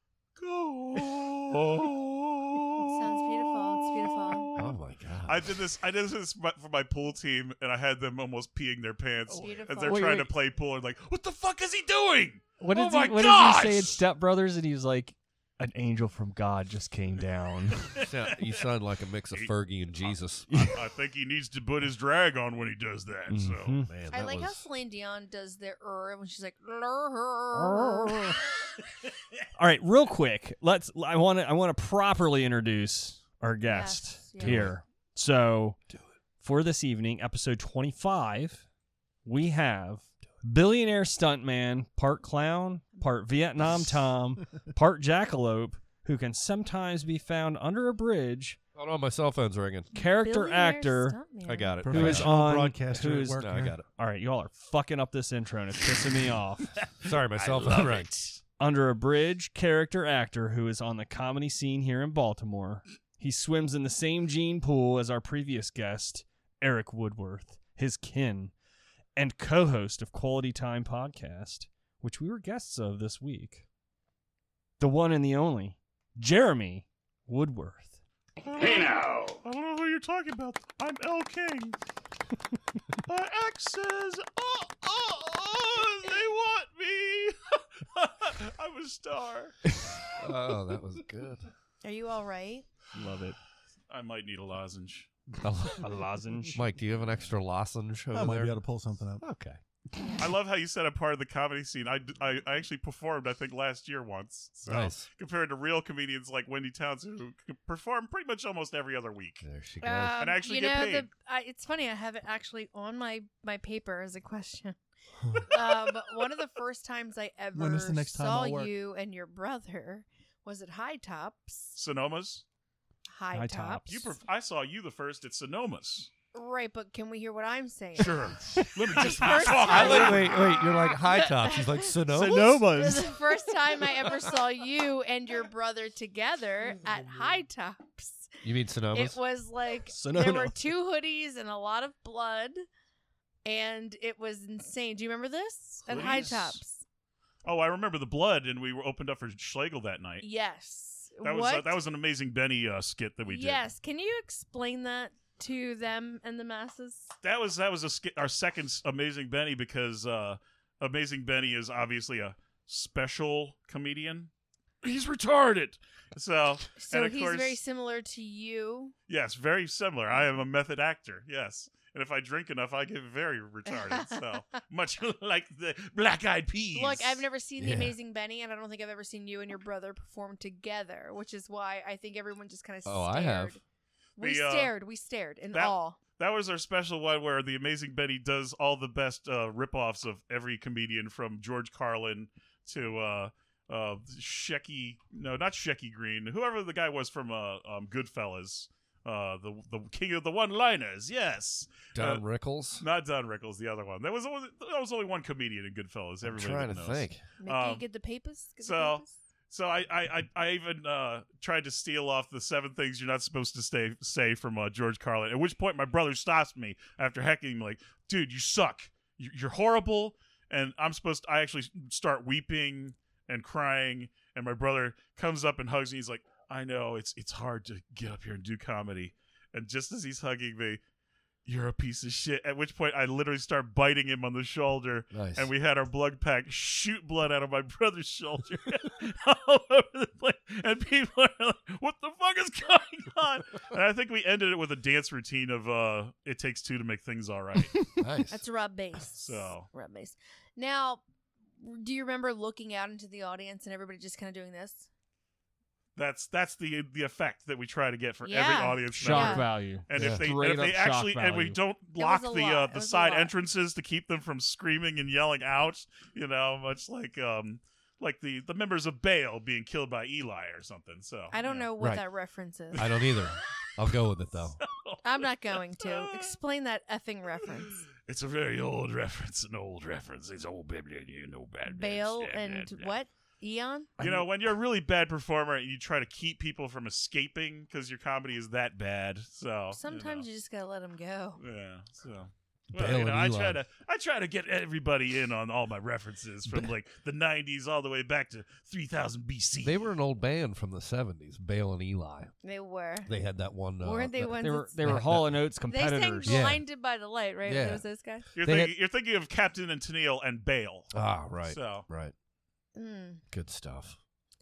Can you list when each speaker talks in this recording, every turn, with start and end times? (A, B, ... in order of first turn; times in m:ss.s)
0:00.4-0:04.7 A
0:02.8-0:04.5 B
0:04.5-0:05.5 C
0:05.2-0:14.0 A
0:09.3-0:10.1 B
0:09.8-0:10.3 D
0:12.6-0:17.8 D
0:17.8-0:18.5 A
0:18.0-0:20.8 C
0:19.3-0:20.1 A
0:20.5-0:20.7 D
0:20.7-0:23.8 A
0:23.3-0:23.9 D
0:23.8-0:24.6 C
0:24.1-0:28.4 B
0:27.5-0:28.4 D
0:29.6-0:35.8 D
0:33.7-0:34.7 B
0:34.4-0:34.7 C
0:36.4-0:38.6 D
0:39.2-0:48.6 D
0:48.7-0:49.9 C
0:49.9-0:51.2 D
0:49.9-0:51.8 B
0:51.4-0:52.4 C
0:51.8-0:53.8 E
0:51.9-0:56.7 D
0:53.3-0:53.8 C
0:57.0-0:58.1 C
0:57.3-0:58.4 A
0:58.6-1:08.5 D
1:09.2-1:13.6 D
1:14.8-1:18.0 D
1:18.4-1:21.8 A
1:23.0-1:29.6 A
1:30.1-1:31.5 C
1:31.8-1:32.7 B
1:32.9-1:33.4 D
1:33.9-1:35.1 A
1:35.4-1:35.9 C
1:35.8-1:36.6 D
1:36.5-1:38.5 C
1:38.1-1:39.2 E
1:39.2-1:39.6 C
1:40.2-1:49.4 A
1:44.6-1:45.1 C
1:49.4-1:50.3 C
1:49.8-1:54.8 B
1:50.2-1:51.1 A
1:55.3-2:01.8 B
1:57.5-1:58.7 E
2:01.7-2:02.4 A
2:03.1-2:04.0 B
2:03.3-2:04.1 D
2:03.9-2:06.1 A
2:06.3-2:08.4 B
2:08.0-2:10.5 A
2:08.9-2:18.3 B
2:09.5-2:12.8 C
2:12.1-2:13.1 D
2:18.4-2:19.2 C
2:18.9-2:22.6 B
2:19.9-2:20.6 D
2:23.4-2:26.8 B
2:25.8-2:26.6 A
2:27.4-2:30.3 A
2:30.2-2:31.8 B
2:31.2-2:33.7 A
2:33.2-2:37.1 B
2:37.2-2:44.3 A
2:44.8-2:47.6 A
2:46.8-2:48.9 B
2:49.1-2:57.2 A
2:53.7-2:54.4 B
2:56.7-3:03.6 B
2:57.6-2:58.0 C
3:02.8-3:03.6 C
3:04.2-3:04.7 A
3:04.2-3:06.0 B
3:05.5-3:22.2 A
3:21.9-3:22.8 C
3:22.8-3:27.8 A
3:26.2-3:27.2 C
3:27.4-3:29.1 B
3:28.6-3:50.8 A
3:51.4-4:07.9 A
3:55.1-3:55.5 C
4:08.0-4:08.4 C
4:08.3-4:11.0 B
4:09.1-4:09.7 A
4:11.6-4:14.9 B
4:16.0-4:31.7 A
4:18.2-4:19.5 B
4:18.9-4:21.6 D
4:19.9-4:20.3 C
4:22.0-4:23.3 B
4:31.3-4:33.1 B
4:32.7-4:33.4 A
4:32.7-4:34.6 C
4:34.6-4:36.4 A
4:35.0-4:37.8 B
4:38.0-4:42.9 A
4:41.7-4:43.9 B
4:44.0-4:44.3 D
4:44.0-4:50.3 A
4:49.7-4:51.4 B
4:51.4-4:59.8 A
4:52.7-4:53.6 C
4:59.6-5:02.3 C
5:02.4-5:03.1 B
5:03.0-5:05.4 C
5:03.8-5:04.8 B
5:04.4-5:06.4 D
5:05.6-5:08.3 B
5:06.2-5:06.6 C
5:07.4-5:07.8 C
5:08.3-5:10.9 A
5:08.4-5:08.7 C
5:10.9-5:12.1 C
5:11.4-5:11.8 A
5:12.7-5:13.2 B
5:13.3-5:14.0 C